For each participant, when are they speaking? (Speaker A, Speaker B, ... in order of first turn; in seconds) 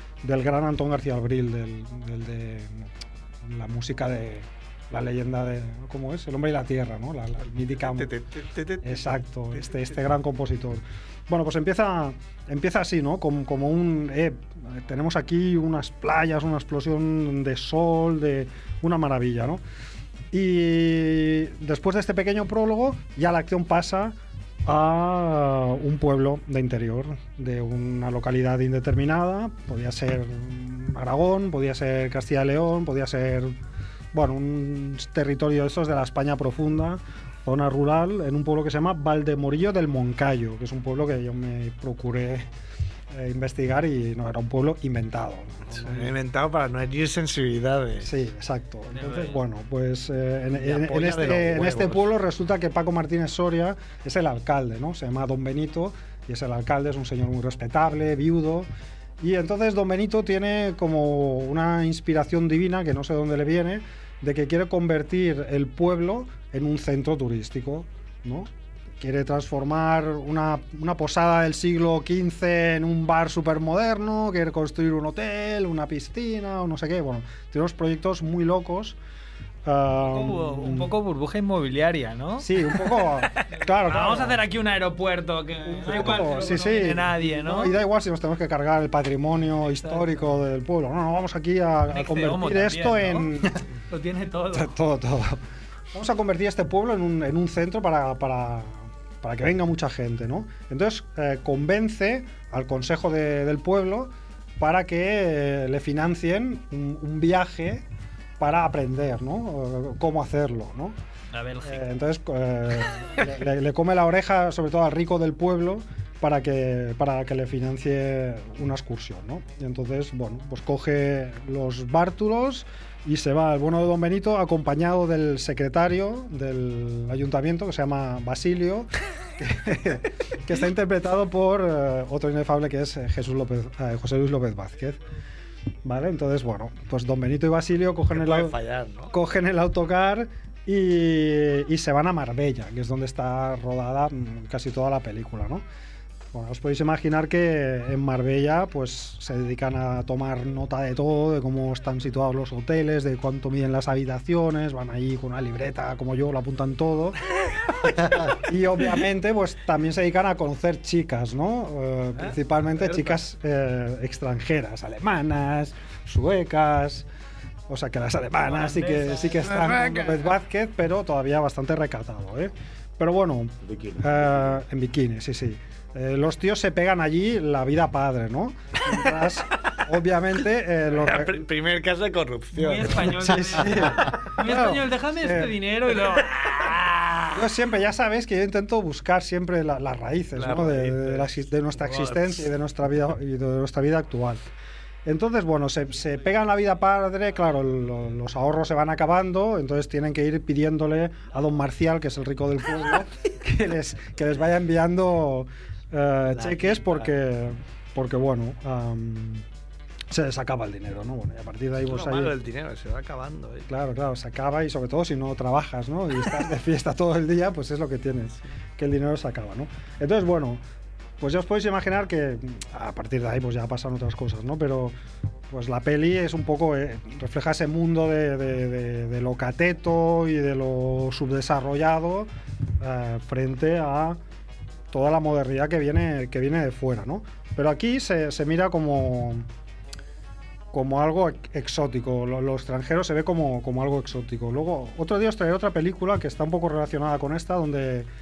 Speaker A: 0.2-8.1, 8.8-19.6, 20.3-33.5, 34.1-42.5, 43.1-46.1, 48.0-58.7, 59.2-79.0, 79.6-80.9, 82.4-84.4, 85.6-93.6, 94.5-95.4, 95.9-107.8, 108.4-111.0, 111.6-135.0, 135.8-138.5, 139.1-145.6, 146.3-157.2, 158.1-167.1, 167.7-181.4, 183.1-185.5, 187.3-194.4, 195.0-209.4, 210.1-212.3, 213.7-220.6, 221.2-224.9, 225.5-234.2, 234.9-239.5, 240.7-248.1
Speaker B: 7.6-10.0, 45.7-48.1, 50.5-52.1, 138.1-139.1, 162.2-163.2, 180.9-183.2, 186.2-187.3, 190.3-192.4, 206.3-207.1, 211.8-213.7
Speaker C: 48.9-49.4, 80.0-87.8, 89.7-90.3, 91.9-93.3, 93.9-94.7, 111.3-111.9, 168.5-169.7, 182.5-186.8